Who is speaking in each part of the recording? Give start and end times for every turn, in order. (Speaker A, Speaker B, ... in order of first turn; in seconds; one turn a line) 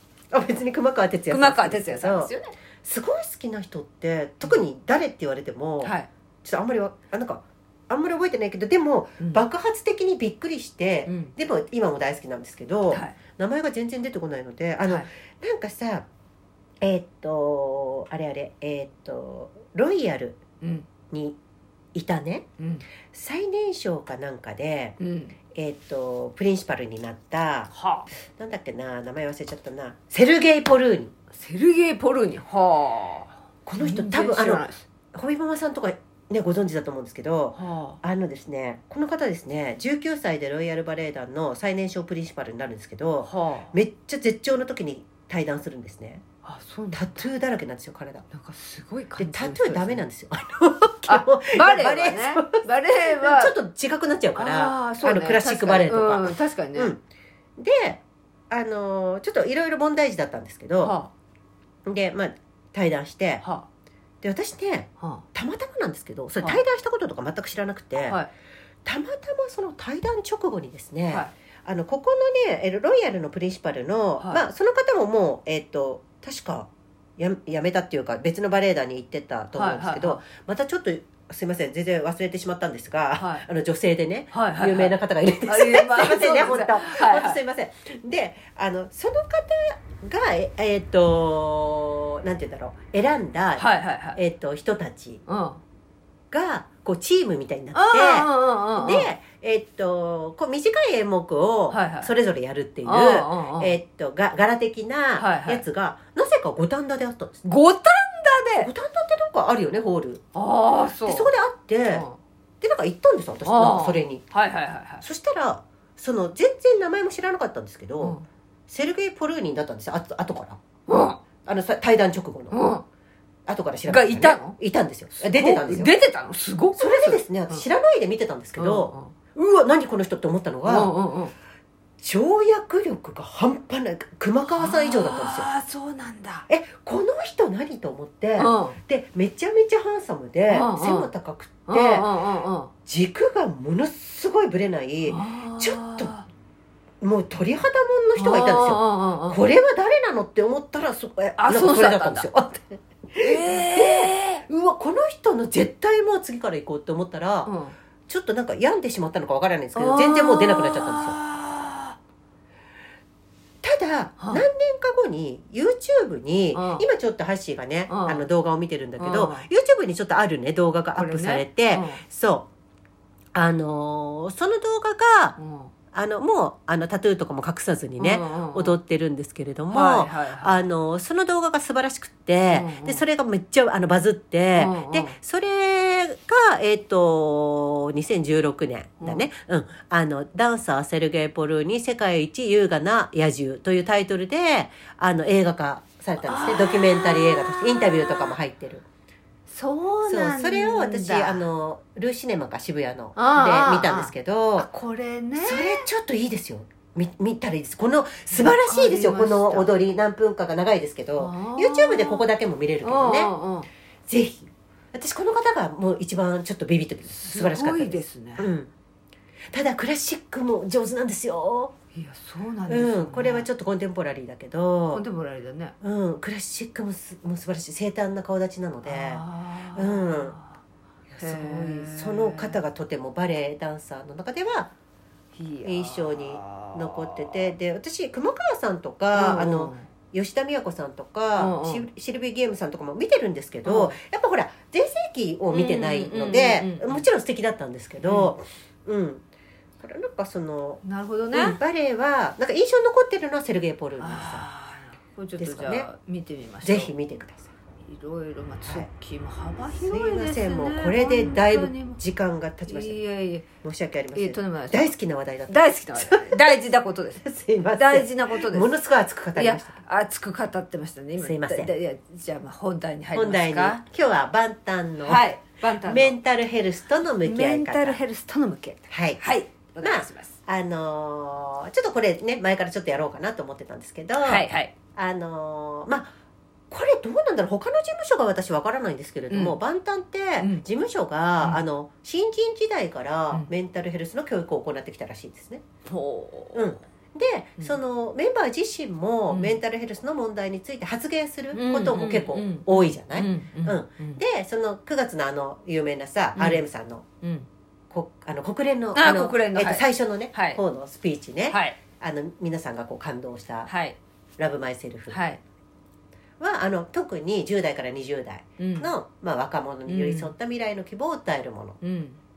Speaker A: 0.3-16.1
Speaker B: 1.3-2.5
Speaker B: 5.8-6.1
Speaker B: 11.1-11.3
Speaker B: 12.9-13.2
Speaker A: 16.8-20.4
Speaker B: 20.6-20.9
Speaker A: 21.1-21.4
Speaker A: 21.9-22.4
Speaker B: 22.6-22.9
Speaker A: 23.1-25.0
Speaker B: 25.0-25.4
Speaker A: 25.5-27.7
Speaker B: 27.7-28.1
Speaker A: 28.3-31.1
Speaker B: 31.3-34.9
Speaker A: 33.6-46.2
Speaker B: 37.5-38.0
Speaker B: 43.2-43.7
Speaker B: 46.4-47.3
Speaker A: 46.9-48.3
Speaker B: 48.3-50.0
Speaker A: 49.2-57.0
Speaker B: 51.1-53.5
Speaker B: 54.4-56.9
Speaker A: 57.6-61.0
Speaker B: 60.8-61.1
Speaker A: 61.9-63.4
Speaker B: 63.4-63.7
Speaker A: 64.2-68.2
Speaker B: 65.0-65.2
Speaker B: 68.0-68.3
Speaker A: 68.8-95.2
Speaker B: 79.5-80.2
Speaker B: 83.2-83.5
Speaker B: 84.3-87.4
Speaker B: 93.6-94.2
Speaker B: 95.3-95.6
Speaker A: 96.3-107.4
Speaker B: 97.7-99.1
Speaker B: 101.7-102.1
Speaker B: 102.8-103.8
Speaker B: 105.2-105.6
Speaker B: 107.4-108.7
Speaker A: 108.6-110.2
Speaker B: 110.3-111.3
Speaker A: 111.0-112.0
Speaker B: 111.9-112.2
Speaker A: 112.6-114.2
Speaker B: 113.5-115.0
Speaker A: 115.0-120.6
Speaker B: 120.9-121.2
Speaker A: 121.4-122.6
Speaker B: 122.5-122.8
Speaker A: 123.5-125.9
Speaker B: 123.9-124.6
Speaker B: 125.2-127.7
Speaker A: 126.8-130.9
Speaker B: 128.6-129.1
Speaker B: 130.7-131.3
Speaker A: 132.0-135.5
Speaker B: 134.5-136.5
Speaker A: 136.5-142.1
Speaker B: 138.4-138.8
Speaker B: 140.5-141.1
Speaker B: 141.7-142.7
Speaker A: 142.8-146.1
Speaker B: 145.1-146.3
Speaker A: 147.0-157.5
Speaker B: 148.2-149.4
Speaker B: 151.4-152.3
Speaker B: 153.2-154.4
Speaker B: 157.4-157.8
Speaker A: 158.1-161.2
Speaker B: 159.7-162.0
Speaker A: 163.6-172.5
Speaker B: 164.2-164.4
Speaker B: 166.5-166.8
Speaker B: 167.9-168.3
Speaker B: 169.0-169.5
Speaker B: 170.9-172.0
Speaker A: 173.3-175.4
Speaker B: 175.4-175.7
Speaker A: 175.9-198.8
Speaker B: 178.0-178.8
Speaker B: 179.7-180.6
Speaker B: 182.5-183.0
Speaker B: 184.6-185.2
Speaker B: 189.0-189.2
Speaker B: 196.2-198.3
Speaker B: 199.5-201.4
Speaker A: 200.0-204.7
Speaker B: 203.2-205.9
Speaker A: 205.4-213.3
Speaker B: 208.3-209.7
Speaker B: 211.2-212.3
Speaker B: 212.8-213.7
Speaker A: 214.1-218.7
Speaker B: 217.1-218.5
Speaker A: 219.5-221.7
Speaker B: 221.9-223.5
Speaker A: 222.7-225.0
Speaker B: 224.9-225.8
Speaker A: 225.8-230.4
Speaker B: 228.8-230.5
Speaker A: 231.1-234.7
Speaker B: 231.2-232.6
Speaker B: 235.3-237.5
Speaker A: 235.6-249.2
Speaker B: 239.1-239.9
Speaker B: 241.4-241.9
Speaker B: 243.6-244.0
Speaker B: 245.5-247.1
Speaker B: 248.0-248.3
Speaker A: 249.8-254.4
Speaker B: 250.8-251.6
Speaker B: 254.0-256.9
Speaker A: 255.4-255.9
Speaker A: 256.6-257.5
Speaker B: 257.8-262.0
Speaker A: 259.7-263.0
Speaker B: 262.7-263.5
Speaker A: 263.6-266.5
Speaker B: 264.1-264.9
Speaker B: 265.5-267.2
Speaker A: 267.2-269.8
Speaker B: 267.8-268.7
Speaker B: 269.3-273.8
Speaker A: 271.2-271.7
Speaker A: 273.1-275.3
Speaker B: 275.0-276.1
Speaker A: 275.8-278.0
Speaker B: 277.2-280.4
Speaker A: 278.9-279.2
Speaker A: 279.8-286.1
Speaker B: 284.2-284.7
Speaker A: 286.7-295.6
Speaker B: 289.3-289.6
Speaker B: 290.4-290.6
Speaker B: 295.9-296.6
Speaker A: 296.5-307.1
Speaker B: 299.3-299.6
Speaker B: 301.5-304.2
Speaker B: 306.3-306.6
Speaker B: 307.2-307.5
Speaker A: 307.9-313.7
Speaker B: 308.9-310.6
Speaker B: 311.5-311.8
Speaker B: 313.7-314.0
Speaker A: 314.4-315.2
Speaker B: 315.1-315.4
Speaker A: 316.4-321.8
Speaker B: 318.6-318.9
Speaker B: 319.9-320.3
Speaker B: 321.8-322.2